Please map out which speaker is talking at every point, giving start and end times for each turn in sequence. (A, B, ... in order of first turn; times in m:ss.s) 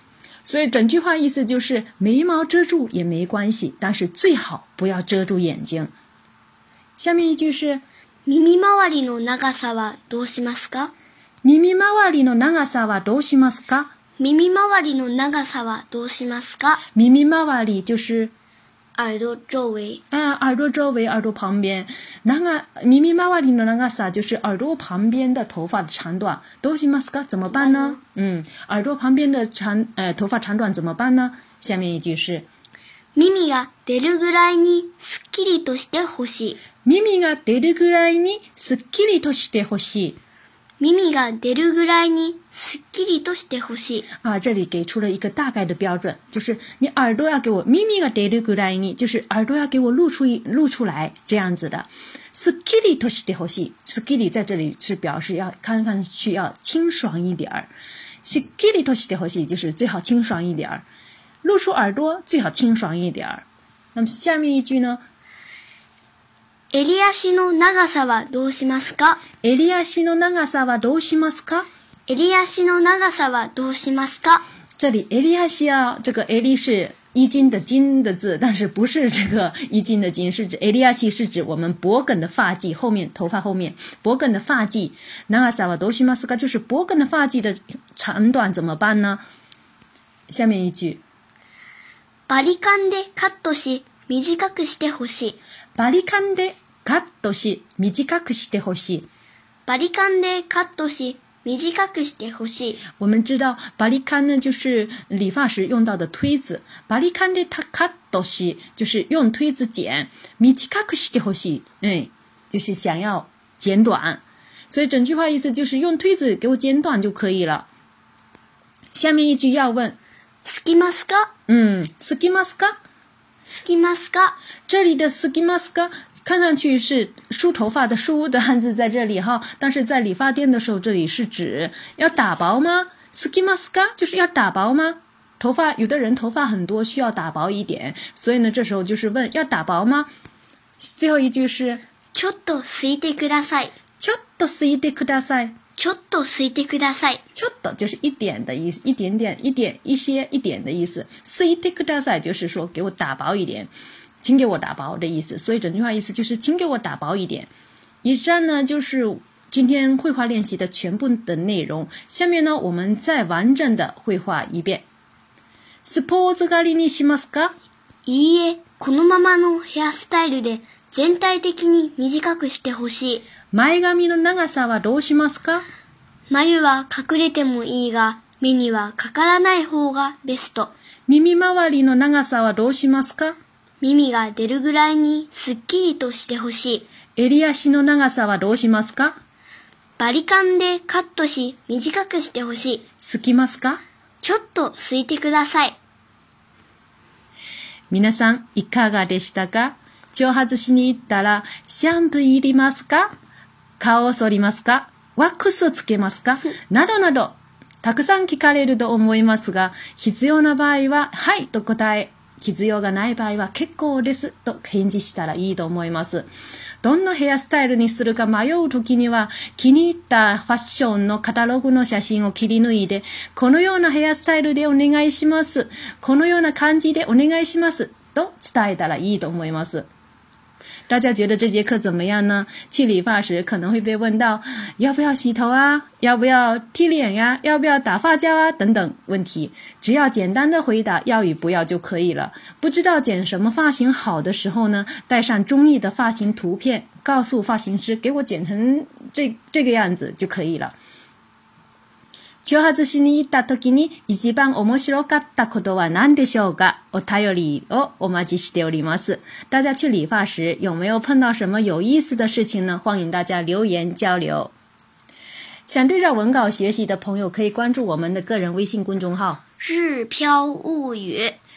0:00.4-0:05.9 A
0:07.0-0:07.8 A
0:08.3-0:10.9 B
0:11.4-0:13.9 A
0:14.2-0:16.8 B
0:17.0-0:18.3 A
0:19.0-0:20.0 B
0:20.1-0:32.5 A
0:27.5-0:28.0 B
0:33.2-0:36.6 B
0:36.8-0:40.2 A
0:40.8-0:44.1 B
0:44.2-0:57.7 A
0:58.2-1:00.8 A
1:01.4-1:05.0 A
1:06.7-1:09.2 B
1:09.4-1:11.7 A
1:12.1-1:14.4 B
1:14.8-1:29.2 A
1:30.3-1:31.0 A
1:32.3-1:35.4 B
1:35.8-1:39.1 A
1:39.7-1:42.8 B
1:43.0-1:57.7 A
1:58.9-2:00.0 A
2:00.4-2:01.3 B
2:01.5-2:02.8 A
2:03.5-2:04.4 B
2:04.7-2:20.1 A
2:20.8-2:21.8 A
2:22.1-2:23.7 B
2:24.0-2:25.6 A
2:25.8-2:27.2 B
2:27.4-2:33.7 A
2:34.2-2:37.5 A
2:38.0-2:44.9 A
2:45.8-2:47.6 A
2:48.1-2:53.3 B
2:53.5-2:55.7 A
2:56.3-3:00.7 B
3:01.1-3:03.4 A
3:03.8-3:06.9 B
3:07.2-3:09.2 A
3:10.0-3:12.8 B
3:13.0-3:13.8 A
3:14.2-3:15.8 B
3:17.9-3:23.1 A
3:23.8-3:36.3 A
3:36.8-3:49.9 A
3:50.9-4:10.8 A
4:12.4-4:24.5 A
4:25.7-4:29.4 A
4:29.6-4:31.4 B